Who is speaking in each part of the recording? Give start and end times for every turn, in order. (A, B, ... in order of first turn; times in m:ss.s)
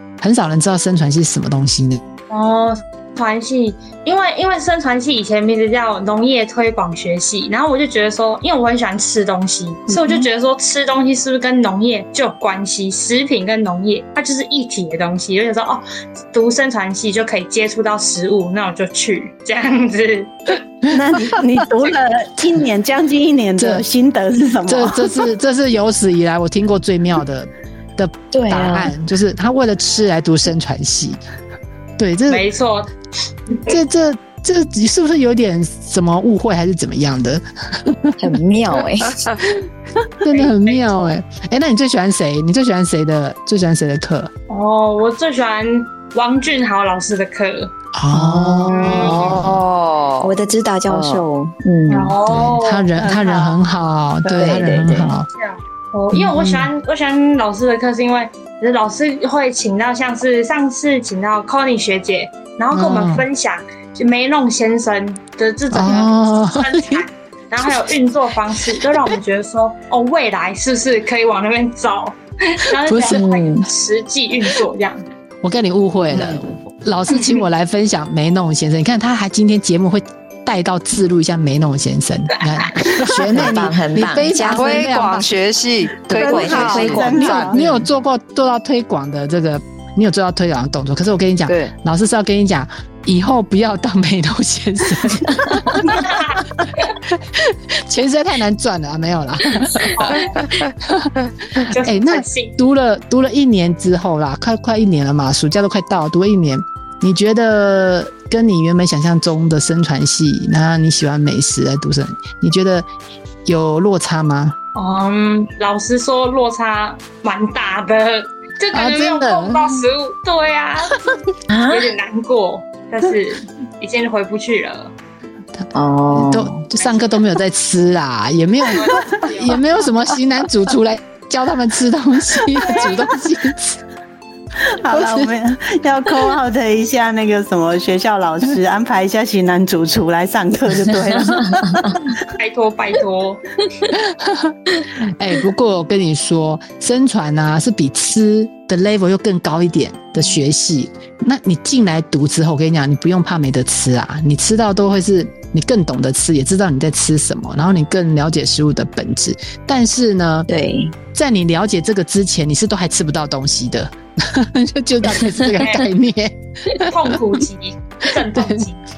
0:00.2-0:02.0 A
0:02.3-0:20.6 B
0:09.9-0:10.2 A
0:20.9-0:25.2 C
0:23.6-0:23.8 A
0:24.7-0:31.2 A
0:28.3-0:28.9 D
0:32.0-0:32.5 A
0:32.3-0:32.9 B
0:33.6-0:38.2 A
0:38.2-0:39.2 D
0:40.2-0:44.3 A
0:40.3-0:40.8 B
0:44.5-0:47.7 B
0:47.9-0:49.6 A
0:48.1-0:49.0 D
0:48.7-0:49.4 B
0:48.7-0:50.3 E
0:50.2-0:52.2 D
0:50.9-0:51.2 E
0:51.9-0:52.9 B
0:52.2-0:55.3 A
0:53.0-0:53.6 C
0:54.3-0:55.1 D
0:55.3-1:15.0 B
0:56.1-0:56.7 A
1:02.7-1:03.3 A
1:05.7-1:07.0 A
1:12.8-1:13.2 A
1:13.1-1:13.7 D
1:15.4-1:25.3 A
1:22.4-1:22.8 B
1:23.1-1:24.9 D
1:24.4-1:27.5 E
1:26.1-1:27.9 D
1:26.1-1:27.6 C
1:26.7-1:52.9 A
1:31.5-1:31.7 E
1:35.8-1:37.0 B
1:39.7-1:40.4 B
1:41.7-1:42.6 B
1:53.4-1:54.6 A
1:54.7-2:04.9 B
1:58.7-1:59.8 A
2:01.5-2:01.9 D
2:05.6-2:13.8 A
2:05.7-2:06.6 D
2:08.7-2:09.6 B
2:12.6-2:13.0 C
2:14.7-2:22.1 C
2:14.9-2:15.3 A
2:21.5-2:22.0 D
2:22.4-2:23.4 B
2:23.9-2:40.5 A
2:40.5-2:41.0 D
2:41.1-2:47.2 A
2:45.6-2:45.9 B
2:46.8-2:48.8 B
2:48.1-2:48.7 A